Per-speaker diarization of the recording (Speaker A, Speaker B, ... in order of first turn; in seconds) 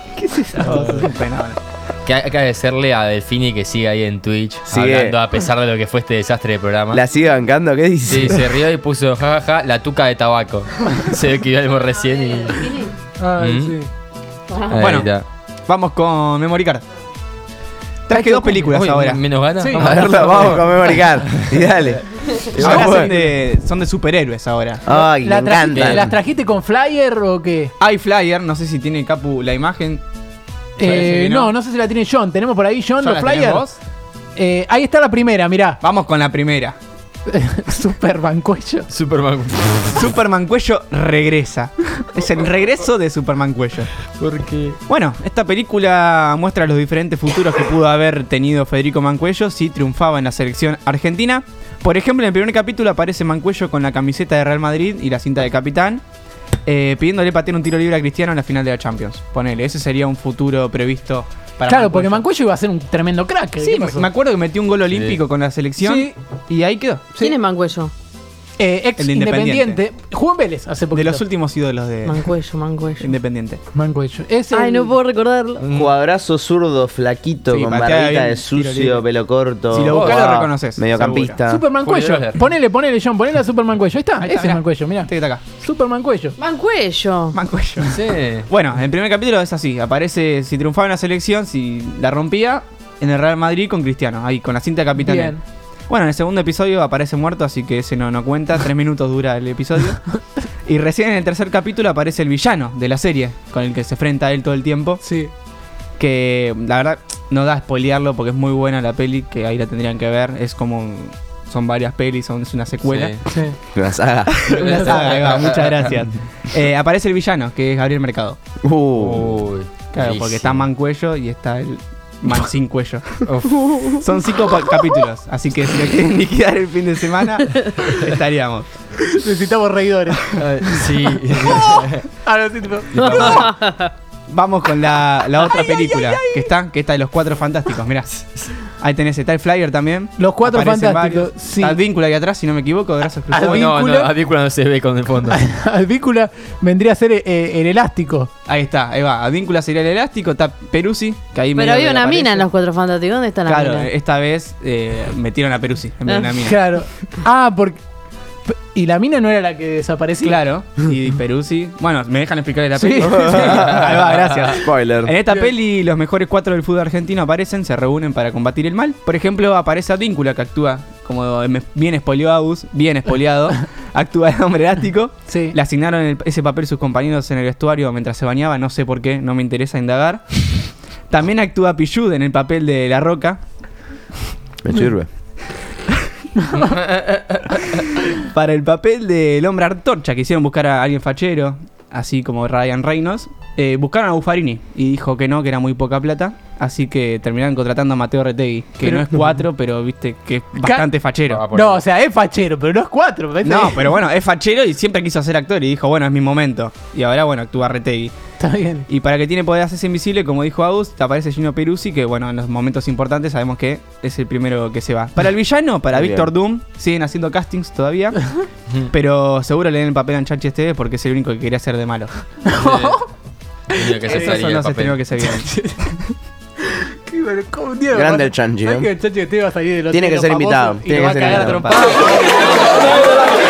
Speaker A: 0.3-1.1, 13.1-13.9, 18.1-18.7, 19.6-20.0, 22.7-23.2, 24.9-27.7, 30.8-33.7, 34.4-35.8, 37.3-38.9, 61.7-64.1, 65.8-66.1, 68.6-71.3, 73.7-75.0, 81.5-86.4, 95.0-95.4, 105.0-105.3, 113.3-113.6, 114.5-115.1, 129.1-130.9, 131.5-133.4, 135.4-136.5, 140.2-141.8, 143.3-144.2, 145.3-148.3, 156.4-157.8, 158.5-160.4, 162.8-163.7, 175.3-175.6, 198.8-199.4, 200.6-200.9, 201.5-204.0, 208.4-208.9, 222.5-223.0, 225.3-226.0, 226.6-232.7
Speaker B: 0.4-1.6, 14.8-15.1, 15.7-16.8, 18.1-19.2, 22.6-24.8, 27.8-30.0, 30.8-31.5, 33.0-33.8, 35.8-36.8, 39.9-44.0, 44.9-56.0, 56.6-62.2, 63.6-67.0, 69.0-69.8, 70.9-72.3, 73.0-73.6, 77.5-79.0, 79.7-81.4, 84.2-85.4, 87.3-105.0, 106.0-113.2, 114.5-118.4, 119.9-129.0, 132.9-133.6, 134.3-143.7, 148.5-152.5, 153.5-156.6, 160.2-183.4, 187.6-201.4, 203.4-208.1, 208.9-222.2, 224.0-225.6, 231.1-232.1
Speaker C: 2.0-7.0, 8.1-12.8, 13.4-13.8, 14.7-15.3, 18.7-21.6, 25.6-26.1, 38.9-40.1, 44.2-44.8, 64.9-65.2, 75.6-75.9, 79.9-80.3, 81.8-82.4, 87.9-88.5, 112.8-113.2, 114.5-116.0, 119.0-120.7, 123.3-123.9, 130.4-132.1, 143.4-145.4, 186.6-187.2, 201.3-201.8, 222.6-223.1, 223.7-225.0
Speaker D: 4.7-5.2, 6.9-8.5, 19.8-23.1, 24.9-26.1, 75.7-81.6, 113.7-114.5, 118.6-119.5, 163.0-165.1, 184.6-185.1, 215.9-216.3, 227.9-228.9, 229.9-231.9
Speaker E: 12.5-13.0, 14.5-14.8, 67.2-67.9, 72.0-73.1, 74.5-75.6, 86.4-87.4, 133.0-133.9, 151.6-153.9, 156.1-156.3